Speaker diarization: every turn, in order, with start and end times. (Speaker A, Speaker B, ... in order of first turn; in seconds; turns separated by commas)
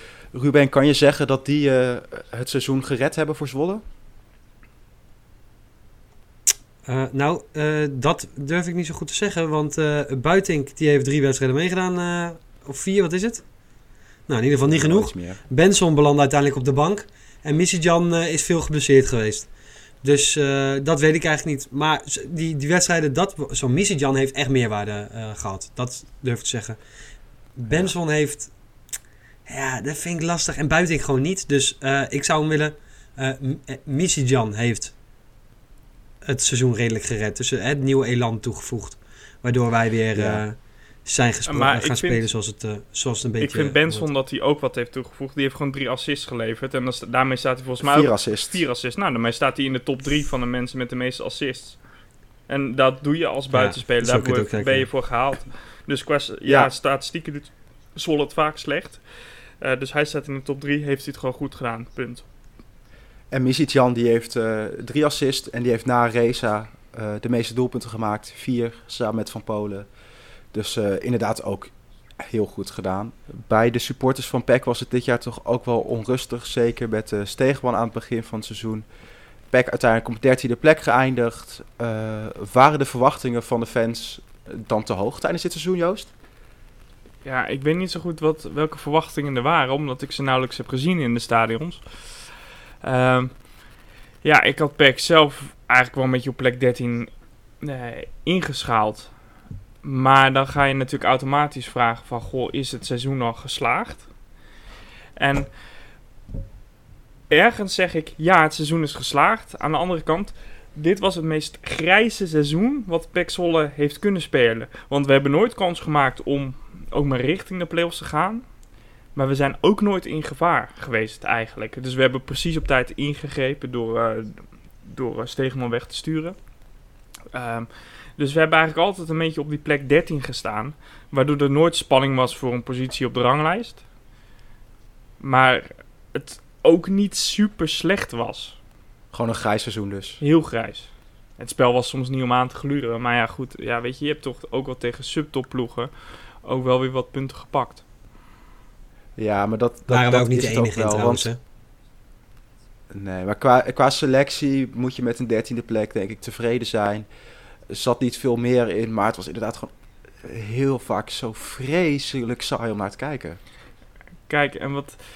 Speaker A: 0.3-3.8, Speaker B: 6.9-13.4, Speaker B: 14.3-19.5, Speaker A: 14.6-15.4, Speaker B: 20.0-26.8, Speaker B: 27.6-28.5, Speaker B: 29.5-34.9, Speaker B: 36.2-44.1, Speaker A: 40.1-40.4, Speaker C: 41.5-42.3, Speaker C: 43.4-51.8, Speaker A: 47.8-48.6, Speaker C: 52.5-59.0, Speaker B: 53.5-54.9, Speaker A: 56.5-56.7, Speaker C: 59.6-62.2, Speaker A: 63.3-69.9, Speaker A: 70.5-78.8, Speaker A: 79.5-86.1, Speaker C: 87.2-92.3, Speaker C: 92.8-93.4, Speaker C: 94.2-97.1, Speaker C: 97.6-99.1, Speaker C: 99.8-104.1, Speaker C: 105.2-105.5, Speaker C: 107.3-118.4, Speaker C: 119.2-126.4, Speaker C: 127.3-133.8, Speaker C: 135.2-138.6, Speaker A: 139.1-140.2, Speaker C: 140.2-145.9, Speaker C: 146.4-147.8, Speaker A: 149.2-151.3, Speaker B: 149.9-151.4, Speaker A: 152.9-157.1, Speaker A: 157.7-159.7, Speaker A: 160.2-163.4, Speaker C: 164.3-165.0